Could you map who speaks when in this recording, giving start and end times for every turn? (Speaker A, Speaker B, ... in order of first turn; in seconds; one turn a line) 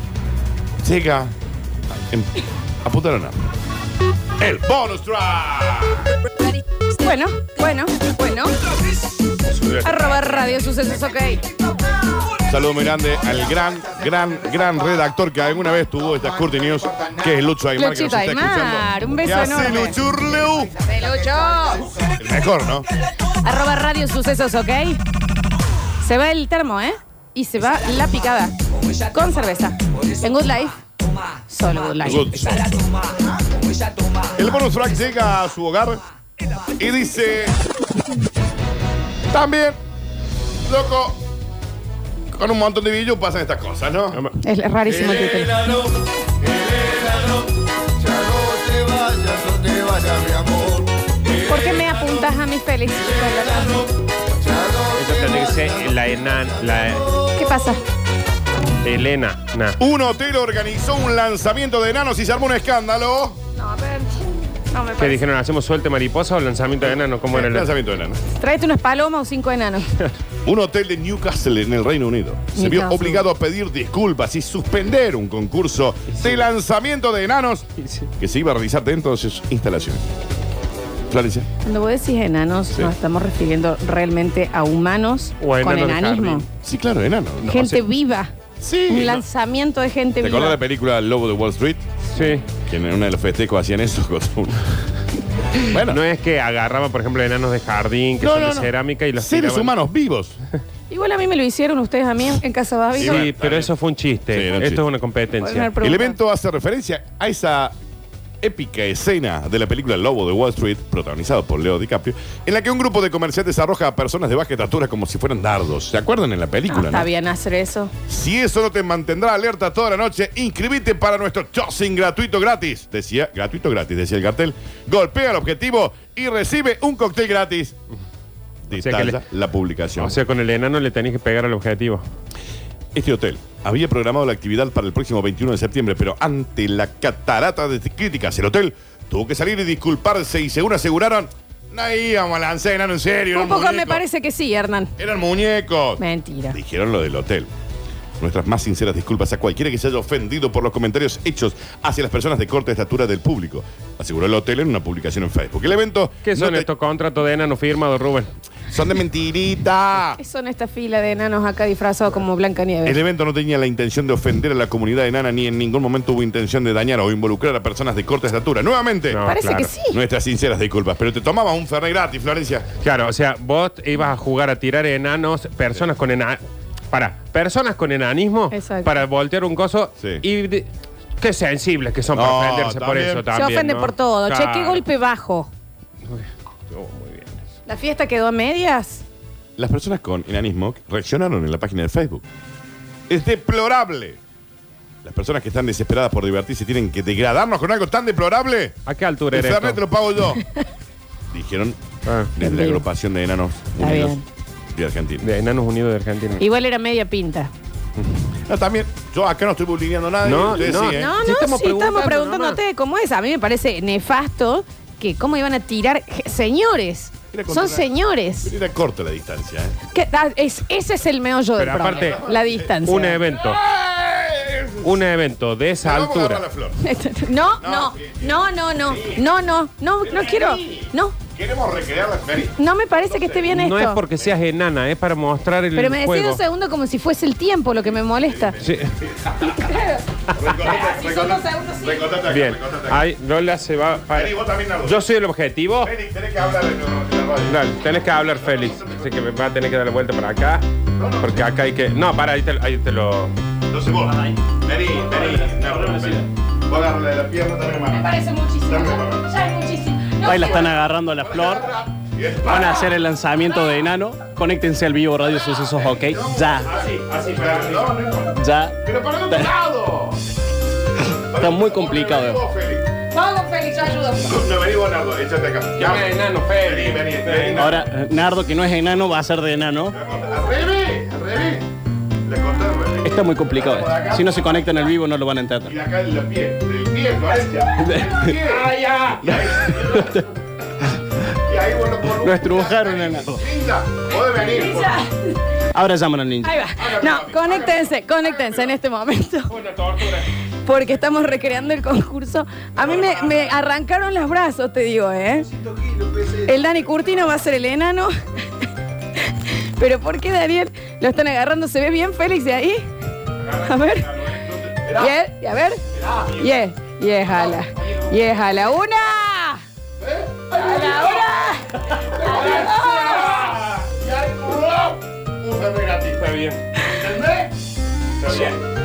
Speaker A: 0.8-1.3
Speaker A: 1.9-3.5
Speaker A: 4.4-6.1
Speaker B: 7.0-8.6
Speaker C: 9.4-10.7
Speaker B: 9.8-11.4
Speaker A: 12.4-20.8
Speaker B: 17.7-20.0
Speaker B: 20.8-21.9
Speaker A: 22.0-22.9
Speaker B: 23.4-25.0
Speaker B: 26.0-28.5
Speaker B: 29.1-32.8
Speaker A: 32.0-32.8
Speaker A: 34.3-36.0
Speaker A: 36.8-37.5
Speaker A: 39.3-39.8
Speaker A: 40.6-41.2
Speaker A: 42.3-44.2
Speaker B: 44.4-45.8
Speaker D: 48.0-50.8
Speaker B: 51.4-53.9
Speaker C: 54.8-57.1
Speaker B: 57.3-57.8
Speaker C: 58.8-59.8
Speaker A: 59.8-63.4
Speaker B: 63.5-65.2
Speaker C: 65.0-67.7
Speaker A: 66.8-68.2
Speaker B: 68.3-69.8
Speaker A: 70.4-80.0
Speaker B: 72.5-73.2
Speaker A: 81.1-81.5
Speaker B: 81.6-86.5
Speaker C: 85.4-86.5
Speaker A: 86.6-87.8
Speaker B: 87.4-88.3
Speaker A: 88.6-89.2
Speaker B: 88.9-90.6
Speaker A: 90.2-94.7
Speaker C: 92.1-92.4
Speaker A: 95.5-96.0
Speaker C: 95.8-99.7
Speaker A: 98.2-100.4
Speaker B: 100.9-103.3
Speaker A: 102.9-103.7
Speaker C: 103.0-105.7
Speaker A: 104.3-104.8
Speaker B: 105.4-106.2
Speaker A: 105.8-107.7
Speaker A: 108.4-117.1
Speaker B: 116.7-117.9
Speaker A: 118.1-127.8
Speaker A: 128.7-130.2
Speaker C: 128.7-129.2
Speaker C: 130.0-132.0
Speaker A: 132.9-144.0
Speaker B: 143.3-144.9
Speaker A: 145.0-147.5
Speaker B: 146.0-146.6
Speaker A: 148.2-156.7
Speaker C: 156.2-158.3
Speaker A: 158.7-160.2
Speaker B: 160.2-163.0
Speaker A: 162.8-169.2
Speaker C: 169.1-169.7
Speaker B: 169.2-170.0
Speaker A: 169.9-172.7
Speaker C: 172.8-180.7
Speaker B: 178.5-179.0
Speaker A: 180.0-180.2
Speaker C: 181.2-184.8
Speaker A: 182.1-183.3
Speaker B: 183.3-185.5
Speaker C: 186.0-187.4
Speaker B: 187.7-189.0
Speaker A: 189.6-192.2
Speaker A: 193.1-194.2
Speaker A: 195.0-198.8
Speaker C: 198.8-199.8
Speaker A: 199.3-200.4
Speaker A: 201.3-201.8
Speaker C: 202.0-202.3
Speaker A: 202.3-204.2
Speaker B: 202.4-202.8
Speaker B: 203.8-204.2
Speaker A: 204.7-205.3
Speaker C: 205.2-206.4
Speaker B: 206.4-207.5
Speaker A: 208.5-211.1
Speaker C: 210.2-212.6
Speaker B: 210.8-218.5
Speaker A: 217.3-217.9
Speaker A: 218.4-219.8
Speaker B: 219.9-223.2
Speaker C: 221.6-222.2
Speaker A: 221.9-225.0
Speaker C: 222.8-223.6
Speaker C: 224.8-226.4
Speaker A: 225.8-226.8
Speaker B: 226.8-231.2
Speaker A: 227.6-229.3
Speaker A: 230.0-233.5
Speaker B: 232.6-234.0
Speaker C: 233.5-236.4
Speaker B: 235.8-238.6
Speaker A: 237.9-239.7
Speaker C: 238.6-238.9
Speaker B: 239.4-242.1
Speaker A: 240.3-243.0
Speaker C: 242.3-245.9
Speaker A: 244.1-245.0
Speaker A: 245.8-249.1
Speaker C: 247.5-250.6
Speaker A: 251.0-251.3
Speaker C: 251.2-253.3
Speaker A: 253.7-259.2
Speaker E: 255.6-256.2
Speaker B: 257.9-260.7
Speaker E: 260.2-261.7
Speaker A: 260.4-262.8
Speaker E: 262.4-266.7
Speaker A: 265.8-270.2
Speaker C: 266.7-267.9
Speaker E: 268.3-269.5
Speaker A: 271.1-272.9
Speaker E: 271.3-272.4
Speaker B: 273.1-274.4
Speaker A: 274.1-277.9
Speaker C: 275.8-277.8
Speaker E: 277.6-279.9
Speaker A: 279.9-281.7
Speaker A: 282.2-284.8
Speaker E: 283.0-285.7
Speaker A: 285.6-290.3
Speaker E: 287.8-288.4
Speaker C: 288.6-289.2
Speaker E: 289.2-290.2
Speaker A: 291.2-295.0
Speaker E: 292.2-293.4
Speaker B: 294.4-295.3
Speaker E: 295.7-296.6
Speaker B: 296.4-299.5
Speaker A: 296.8-297.9
Speaker C: 299.5-300.3
Speaker B: 300.6-305.5
Speaker C: 301.0-301.3
Speaker C: 302.8-303.5
Speaker B: 306.2-308.1
Speaker B: 309.1-312.8
Speaker B: 313.5-319.6
Speaker A: 314.2-315.1
Speaker A: 316.0-316.3
Speaker B: 320.5-323.5
Speaker C: 322.0-323.7
Speaker A: 324.2-324.6
Speaker C: 324.4-326.6
Speaker C: 328.2-328.6